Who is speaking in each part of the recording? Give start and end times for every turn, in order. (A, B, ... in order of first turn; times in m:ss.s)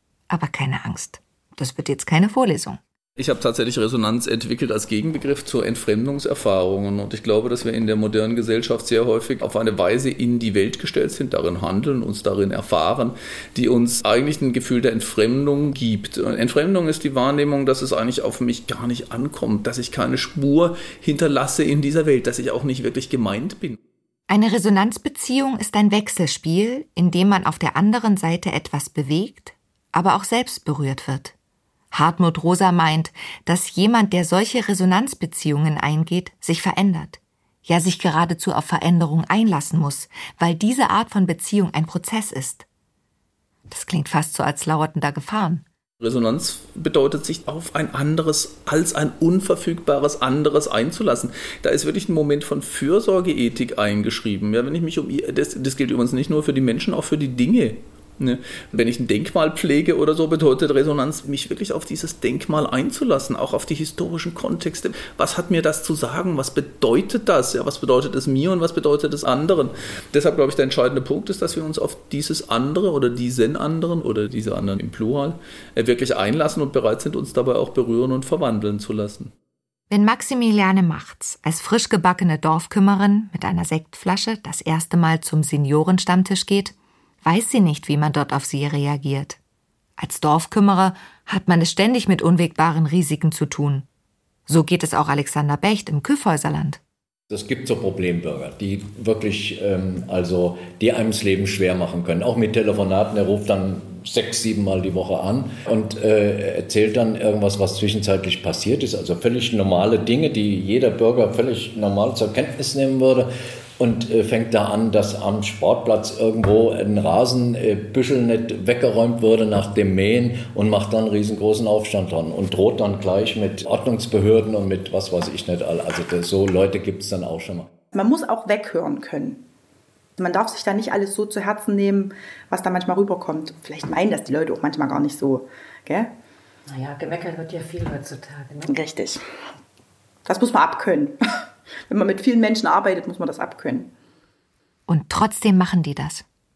0:00.3-0:02.8 A
0:03.2-0:23.8 B
0:24.3-0:31.3 A
0:31.9-0:42.6 A
0:43.7-0:45.6 A
0:46.0-1:19.3 B
1:19.9-1:29.4 A
1:30.0-1:33.8 A
1:34.5-1:36.8 A
1:37.3-2:07.7 C
2:07.9-2:09.4 D
2:10.2-2:16.1 D
2:16.7-2:18.8 E
2:18.7-2:19.2 D
2:20.2-2:21.1 D
2:21.9-2:23.9 D
2:24.9-2:26.2 A